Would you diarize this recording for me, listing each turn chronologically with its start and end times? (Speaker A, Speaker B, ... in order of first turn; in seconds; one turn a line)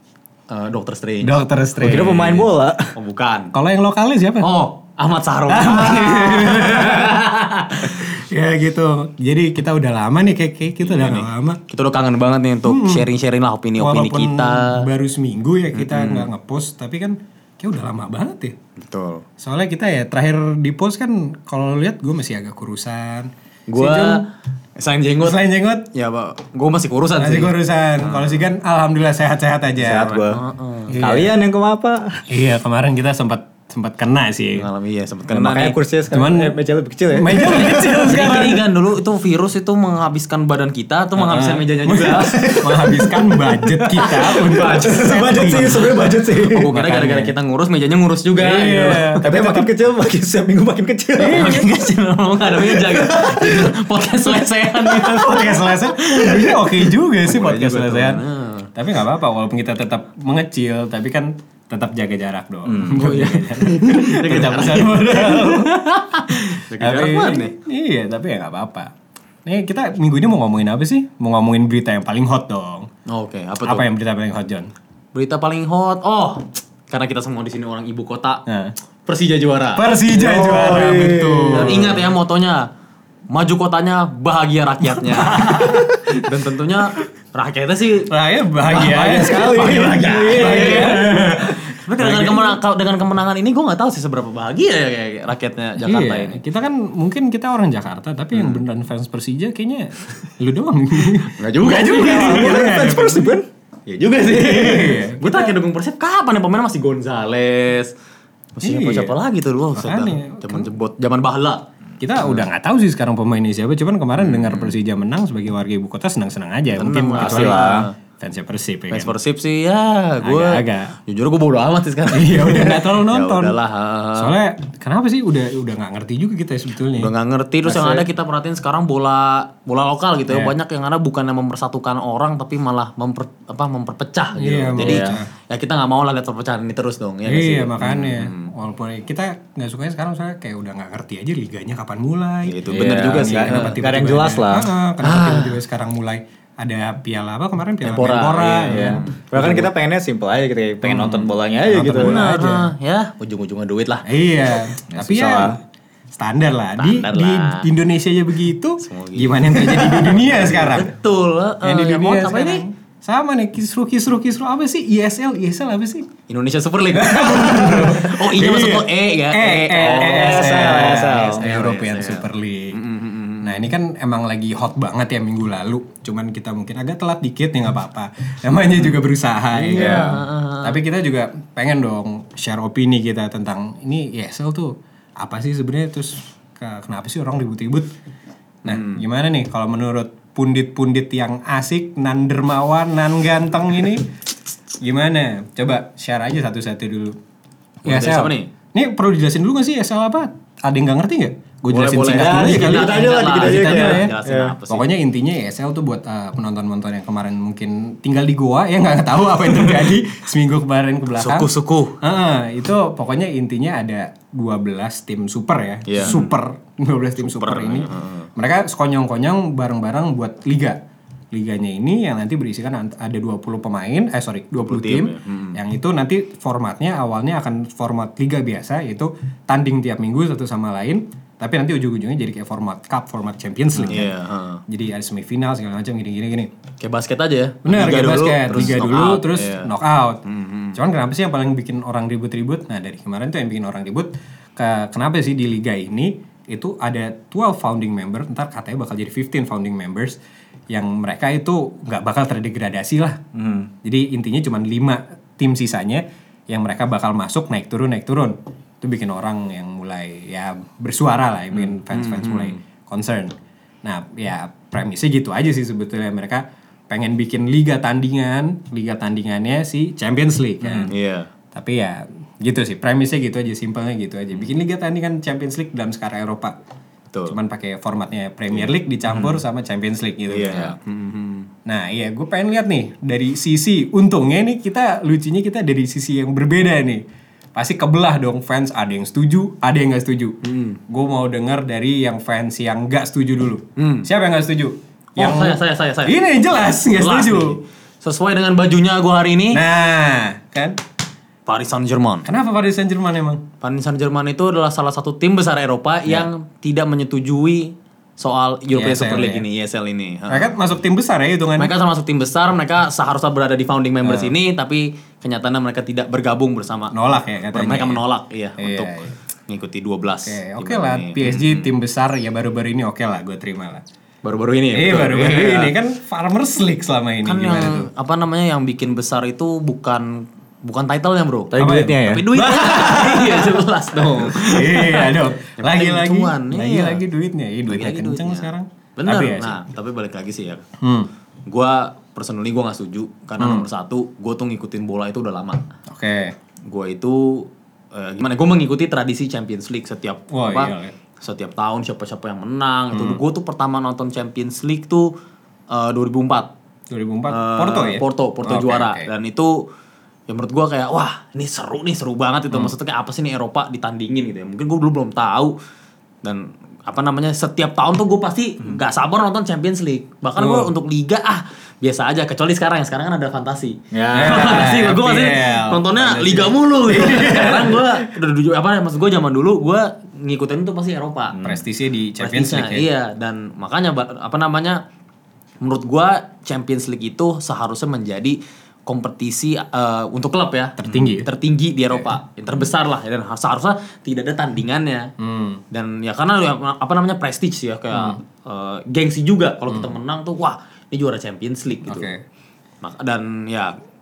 Speaker A: 0.5-1.4
Speaker B: 1.2-2.5
Speaker C: 1.8-2.9
Speaker A: 2.9-3.5
Speaker B: 3.5-4.5
Speaker A: 4.4-8.1
Speaker B: 5.5-7.3
Speaker B: 7.8-11.6
Speaker A: 10.8-14.8
Speaker B: 12.6-13.1
Speaker B: 13.8-18.6
Speaker A: 15.7-16.3
Speaker A: 18.8-19.2
Speaker B: 19.4-24.2
Speaker A: 23.7-24.2
Speaker A: 24.8-28.4
Speaker B: 25.2-25.9
Speaker B: 27.2-30.2
Speaker C: 29.8-30.4
Speaker A: 30.3-31.0
Speaker B: 30.9-31.3
Speaker C: 31.0-32.2
Speaker B: 32.3-34.7
Speaker A: 34.5-35.8
Speaker C: 35.3-38.3
Speaker B: 36.1-36.6
Speaker B: 37.1-38.6
Speaker A: 37.3-42.6
Speaker B: 41.1-47.3
Speaker C: 42.2-46.7
Speaker A: 44.0-45.0
Speaker A: 46.5-49.6
Speaker B: 48.4-49.6
Speaker C: 49.2-51.6
Speaker B: 51.2-51.6
Speaker A: 51.2-56.6
Speaker C: 52.5-53.7
Speaker B: 54.9-68.9
Speaker A: 57.2-58.7
Speaker C: 62.6-63.2
Speaker A: 62.8-67.5
Speaker B: 69.4-72.9
Speaker A: 73.1-73.8
Speaker B: 73.6-74.7
Speaker A: 75.1-78.4
Speaker B: 78.5-78.7
Speaker A: 79.0-79.9
Speaker B: 79.8-82.1
Speaker C: 80.1-81.9
Speaker A: 81.5-82.7
Speaker A: 83.3-96.4
Speaker B: 84.9-85.9
Speaker C: 85.6-86.0
Speaker B: 88.1-92.6
Speaker C: 88.8-91.4
Speaker B: 95.8-103.4
Speaker A: 98.3-98.6
Speaker A: 101.2-102.7
Speaker C: 101.8-103.5
Speaker A: 103.9-107.9
Speaker B: 104.3-105.5
Speaker A: 108.5-111.6
Speaker B: 108.6-109.2
Speaker B: 109.7-110.7
Speaker B: 112.0-119.2
Speaker A: 114.2-114.7
Speaker A: 116.7-117.9
Speaker C: 117.2-117.8
Speaker A: 118.9-124.3
Speaker B: 120.2-121.0
Speaker B: 122.1-123.6
Speaker B: 124.2-127.1
Speaker A: 127.0-138.5
Speaker C: 127.7-128.0
Speaker B: 130.3-130.5
Speaker B: 134.3-135.3
Speaker C: 134.8-135.2
Speaker B: 137.2-149.6
Speaker A: 142.4-143.7
Speaker C: 142.7-144.7
Speaker A: 145.0-145.6
Speaker A: 147.8-149.6
Speaker C: 148.7-152.4
Speaker B: 150.8-152.7
Speaker A: 152.0-154.1
Speaker B: 154.0-155.6
Speaker C: 154.9-155.6
Speaker B: 156.1-160.9
Speaker A: 156.8-157.7
Speaker A: 158.8-162.6
Speaker B: 161.6-166.1
Speaker A: 166.3-173.7
Speaker B: 166.9-172.8
Speaker C: 167.4-167.9
Speaker C: 169.8-171.4
Speaker B: 173.4-187.9
Speaker A: 179.5-180.8
Speaker C: 179.7-180.2
Speaker B: 188.6-194.1
Speaker A: 188.7-189.0
Speaker B: 194.8-197.2
Speaker A: 197.8-198.5
Speaker B: 197.8-204.1
Speaker A: 201.7-204.9
Speaker C: 202.1-204.5
Speaker B: 204.7-220.8
Speaker A: 211.2-212.0
Speaker A: 215.8-216.3
Speaker A: 217.2-218.3
Speaker B: 221.3-234.1
Speaker A: 224.6-225.6
Speaker A: 233.8-234.6
Speaker B: 234.7-236.5
Speaker A: 236.8-239.7
Speaker B: 237.6-250.2
Speaker A: 240.2-240.8
Speaker B: 250.7-253.2
Speaker C: 253.3-253.7
Speaker B: 253.8-270.9
Speaker A: 261.5-262.6
Speaker A: 270.6-271.3
Speaker B: 271.5-276.6
Speaker A: 277.1-277.4
Speaker B: 277.3-280.8
Speaker A: 278.5-279.4
Speaker A: 280.3-281.5
Speaker B: 281.6-287.0
Speaker B: 287.5-297.6
Speaker A: 290.4-290.8
Speaker A: 293.8-294.1
Speaker A: 295.1-296.2
Speaker A: 296.9-299.6
Speaker B: 299.5-300.8
Speaker A: 301.4-302.3
Speaker B: 302.2-303.4
Speaker A: 303.6-310.5
Speaker B: 308.7-309.4
Speaker B: 310.3-311.7
Speaker A: 311.6-316.9
Speaker B: 314.0-314.3
Speaker B: 316.9-318.0
Speaker A: 317.5-318.9
Speaker B: 318.6-319.1
Speaker A: 319.5-321.7
Speaker B: 320.2-323.8
Speaker A: 324.2-325.7
Speaker B: 324.7-327.9
Speaker A: 327.2-337.0
Speaker C: 331.5-332.2
Speaker B: 331.6-339.6
Speaker A: 337.6-340.6
Speaker B: 340.8-341.1
Speaker A: 341.5-345.7
Speaker B: 343.4-343.7
Speaker B: 345.9-346.3
Speaker A: 346.7-355.1
Speaker B: 350.3-350.9
Speaker B: 352.9-353.2
Speaker A: 355.7-356.5
Speaker B: 356.9-359.1
Speaker A: 357.3-359.6
Speaker A: 360.3-365.5
Speaker A: 366.2-381.4
Speaker B: 370.4-370.7
Speaker C: 373.9-374.7
Speaker B: 374.1-377.9
Speaker C: 377.2-377.5
Speaker C: 381.3-381.6
Speaker B: 381.4-382.9
Speaker A: 382.2-384.8
Speaker A: 385.6-395.1
Speaker B: 390.8-391.3
Speaker B: 395.2-395.6
Speaker A: 395.7-402.1
Speaker B: 397.9-398.2
Speaker B: 399.7-399.9
Speaker B: 401.9-402.2
Speaker A: 402.8-403.7